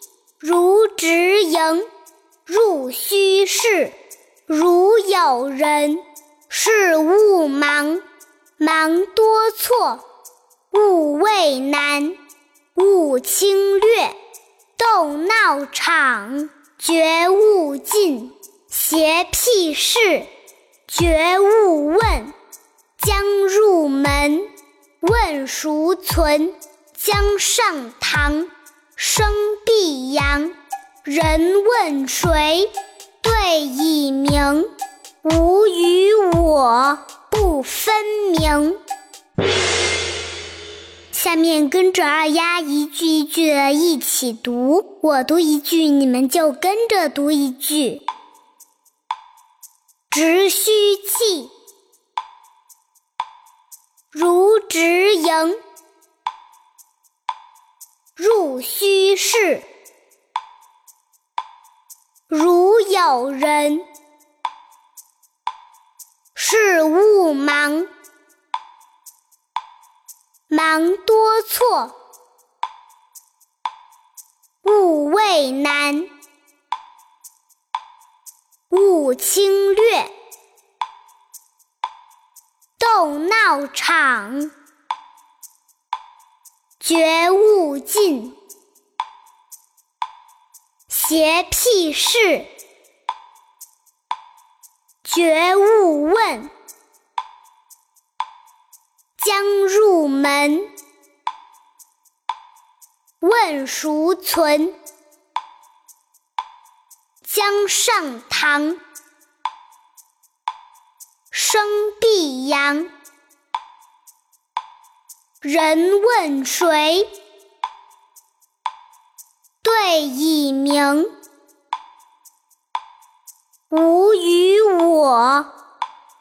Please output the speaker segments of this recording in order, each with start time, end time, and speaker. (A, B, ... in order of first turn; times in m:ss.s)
0:00.4-0:01.9 A
0:02.4-0:04.0 A
0:04.5-0:08.0 A
0:08.6-0:10.0 A
0:10.7-0:12.2 A
0:12.7-0:14.2 A
0:14.8-0:20.3 A
0:20.9-0:22.3 A
0:23.0-0:34.7 A
0:35.2-0:38.8 A
0:41.1-0:48.0 A
0:50.1-0:51.5 A
0:54.1-0:55.6 A
0:58.2-0:59.7 A
1:02.3-1:03.9 A
1:06.3-1:07.9 A
1:10.5-1:12.0 A
1:14.6-1:16.1 A
1:18.7-1:20.1 A
1:22.8-1:24.5 A
1:26.8-1:28.4 A
1:30.9-1:32.5 A
1:35.0-1:36.5 A
1:39.2-1:40.7 A
1:43.2-1:44.8 A
1:47.2-1:48.8 A
1:51.3-1:52.9 A
1:55.4-1:57.1 A
1:59.6-2:01.1 A
2:03.7-2:05.5 A